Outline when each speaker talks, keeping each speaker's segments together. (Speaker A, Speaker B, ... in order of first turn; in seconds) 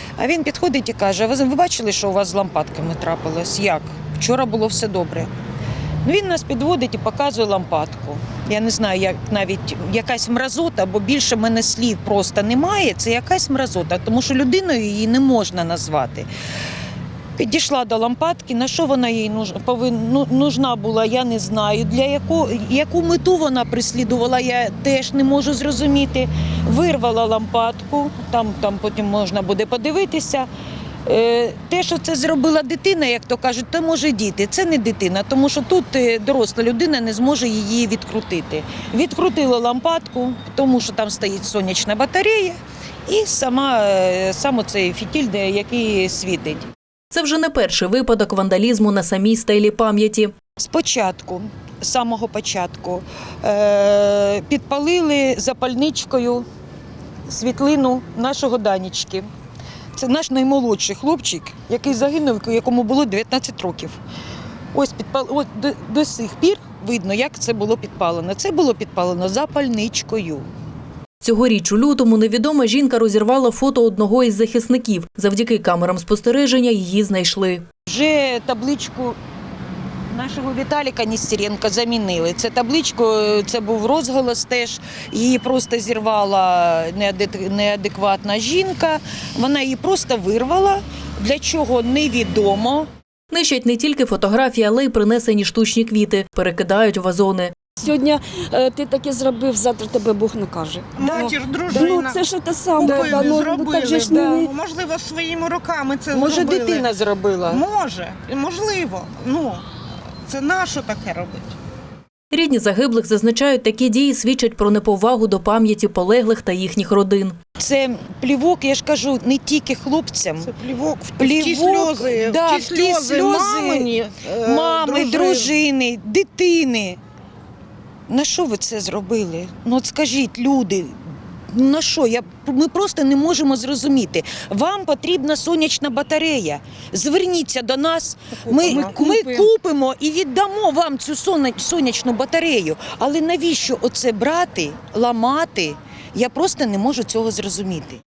Speaker A: 0.2-5.3, 6.0-16.3, 17.4-30.5, 31.1-46.7, 50.6-56.5, 57.3-59.3, 60.0-64.0, 64.7-70.5, 77.8-79.2, 80.1-92.9, 101.0-101.3, 102.8-103.2, 106.1-107.6, 117.6-120.5, 121.2-127.0, 128.1-148.0
Speaker B: 47.1-50.3, 71.2-77.6, 93.3-97.5, 112.3-117.4
Speaker C: 97.8-104.5
Speaker D: 101.0-106.9, 107.5-109.7, 110.3-111.5, 120.4-125.5, 138.4-139.5